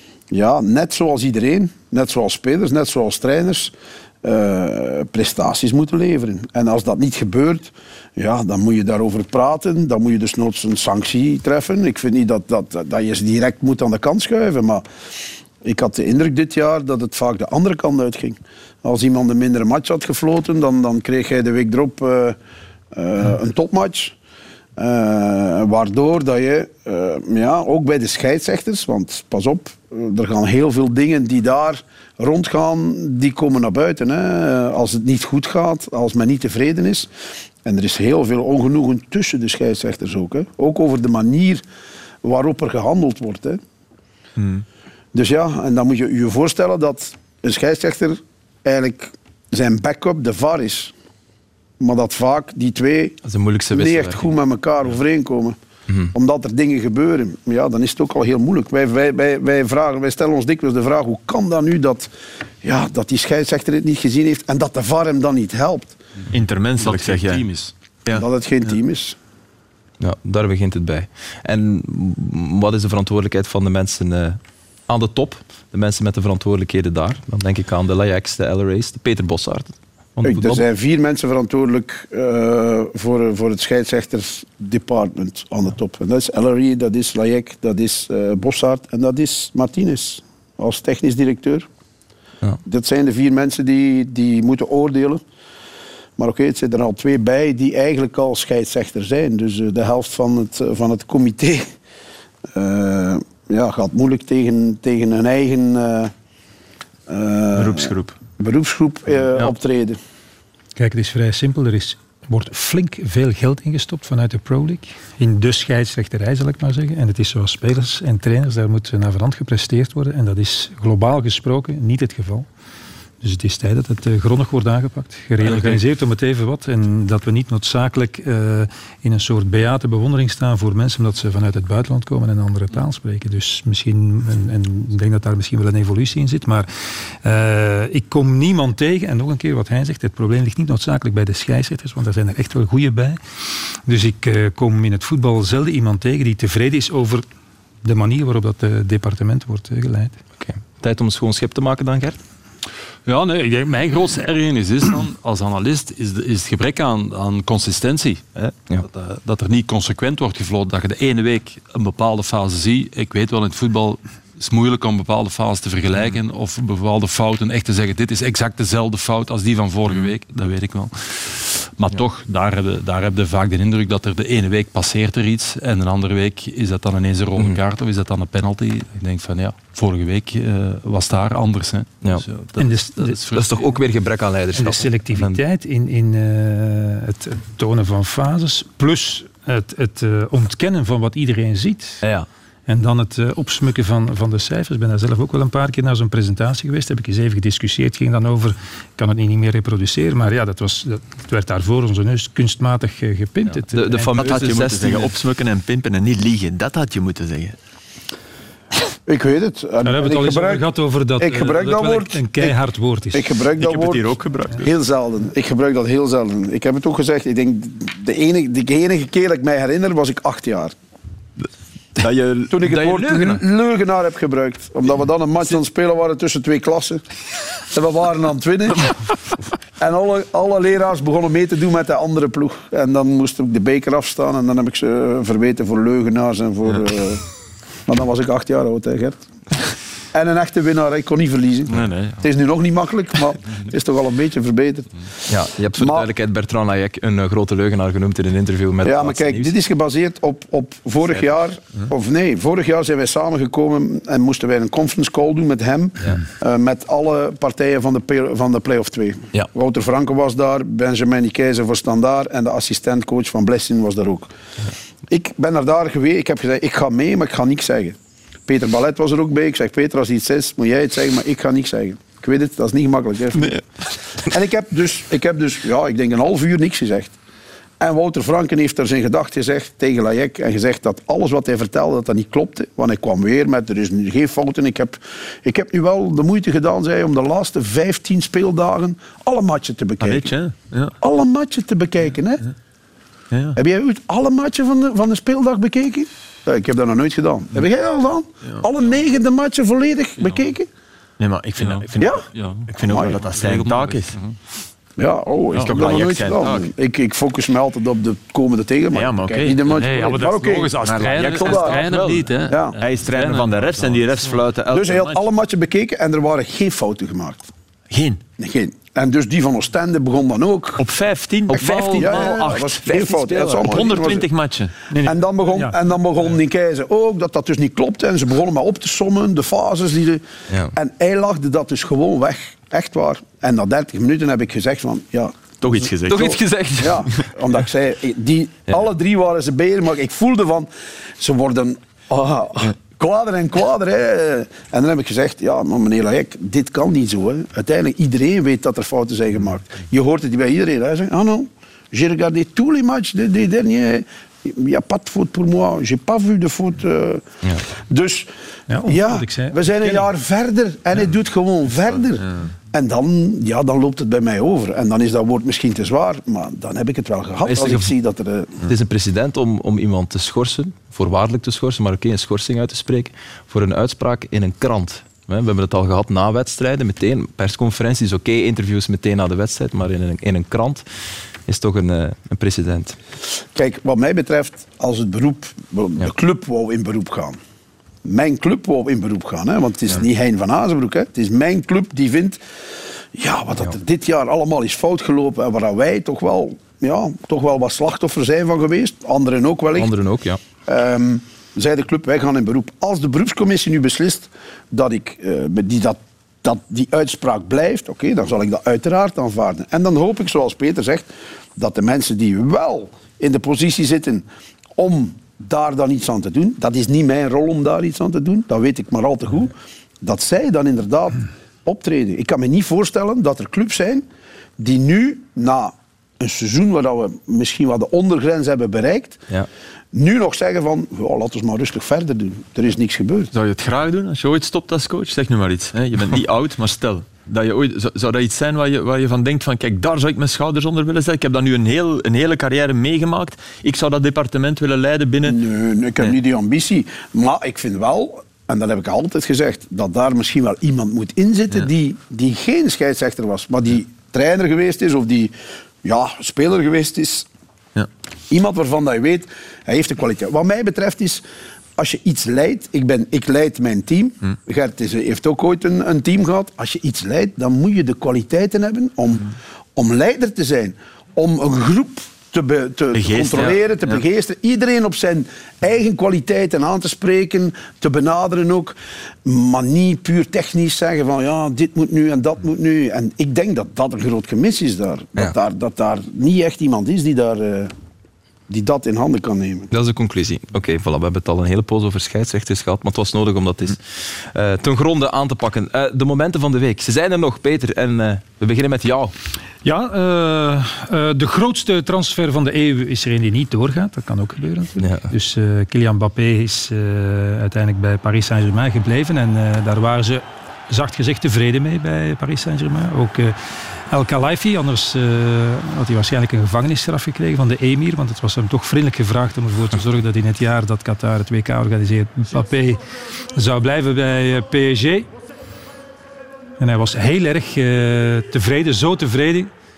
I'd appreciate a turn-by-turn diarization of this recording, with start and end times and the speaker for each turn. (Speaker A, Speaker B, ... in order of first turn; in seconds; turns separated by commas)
Speaker A: 0.3-14.8, Speaker A: 15.6-22.4, Speaker A: 22.9-24.1, Speaker A: 24.8-37.1, Speaker A: 37.6-41.6, Speaker A: 42.2-43.6, Speaker B: 44.4-44.6, Speaker A: 45.1-50.9, Speaker A: 51.8-53.2, Speaker C: 53.2-54.3, Speaker A: 53.7-55.6, Speaker A: 56.1-62.1, Speaker A: 62.6-66.0, Speaker B: 66.3-67.5, Speaker D: 66.8-67.7, Speaker A: 68.1-69.2, Speaker C: 70.0-80.6, Speaker A: 80.2-91.7, Speaker A: 92.6-95.2, Speaker A: 96.2-101.7, Speaker A: 102.5-106.1, Speaker A: 107.1-110.0, Speaker B: 107.5-108.1, Speaker E: 110.8-122.5, Speaker E: 123.2-143.2, Speaker E: 143.8-147.2, Speaker E: 147.8-150.2, Speaker C: 150.4-152.2, Speaker D: 153.1-183.6, Speaker E: 182.6-183.2, Speaker C: 183.3-185.4, Speaker E: 184.5-192.0, Speaker E: 192.7-204.2, Speaker C: 203.7-205.1, Speaker B: 204.2-207.6, Speaker A: 209.1-210.7, Speaker E: 209.8-213.3, Speaker A: 211.2-212.5, Speaker A: 213.1-220.8, Speaker B: 213.6-214.7, Speaker B: 222.0-223.2, Speaker A: 222.5-227.0, Speaker C: 222.6-223.4, Speaker A: 227.7-228.9, Speaker A: 229.8-237.2, Speaker A: 237.9-239.2, Speaker A: 240.1-244.9, Speaker D: 241.7-242.2, Speaker C: 245.3-249.5, Speaker A: 245.7-246.1, Speaker A: 248.8-264.3, Speaker A: 265.1-273.6, Speaker B: 273.4-273.6, Speaker A: 274.2-277.1, Speaker A: 277.8-290.3, Speaker B: 290.0-290.9, Speaker A: 291.0-292.4, Speaker B: 293.3-293.6, Speaker A: 293.5-300.7, Speaker B: 301.2-304.2, Speaker D: 301.6-302.7, Speaker A: 302.0-302.2, Speaker A: 302.8-303.2, Speaker D: 303.4-304.4, Speaker A: 305.0-311.9, Speaker B: 305.5-306.7, Speaker B: 308.9-309.8, Speaker D: 309.8-314.4, Speaker B: 310.8-315.2, Speaker A: 312.5-312.8, Speaker A: 314.7-317.5, Speaker B: 317.9-318.2, Speaker A: 318.4-320.9, Speaker B: 320.8-324.7, Speaker C: 321.5-323.7, Speaker A: 321.6-324.3, Speaker E: 324.9-325.8, Speaker A: 325.0-335.6, Speaker C: 330.5-330.7, Speaker B: 335.6-336.4, Speaker A: 336.1-358.3, Speaker C: 336.1-337.1, Speaker E: 358.7-360.1, Speaker A: 358.8-368.6, Speaker C: 367.4-367.9, Speaker C: 368.7-380.8, Speaker C: 381.5-383.0, Speaker A: 383.5-387.4, Speaker A: 388.0-392.4, Speaker A: 393.1-399.9, Speaker C: 399.8-400.4, Speaker A: 400.6-414.2, Speaker A: 414.8-424.1, Speaker A: 424.6-429.2, Speaker A: 429.9-433.3, Speaker B: 433.3-445.4, Speaker A: 445.2-457.3, Speaker A: 458.3-461.2, Speaker A: 461.8-487.7, Speaker B: 472.9-474.0, Speaker A: 488.5-489.7, Speaker C: 489.7-499.1, Speaker E: 499.6-522.8, Speaker C: 504.8-505.1, Speaker E: 523.3-525.1, Speaker E: 526.6-529.5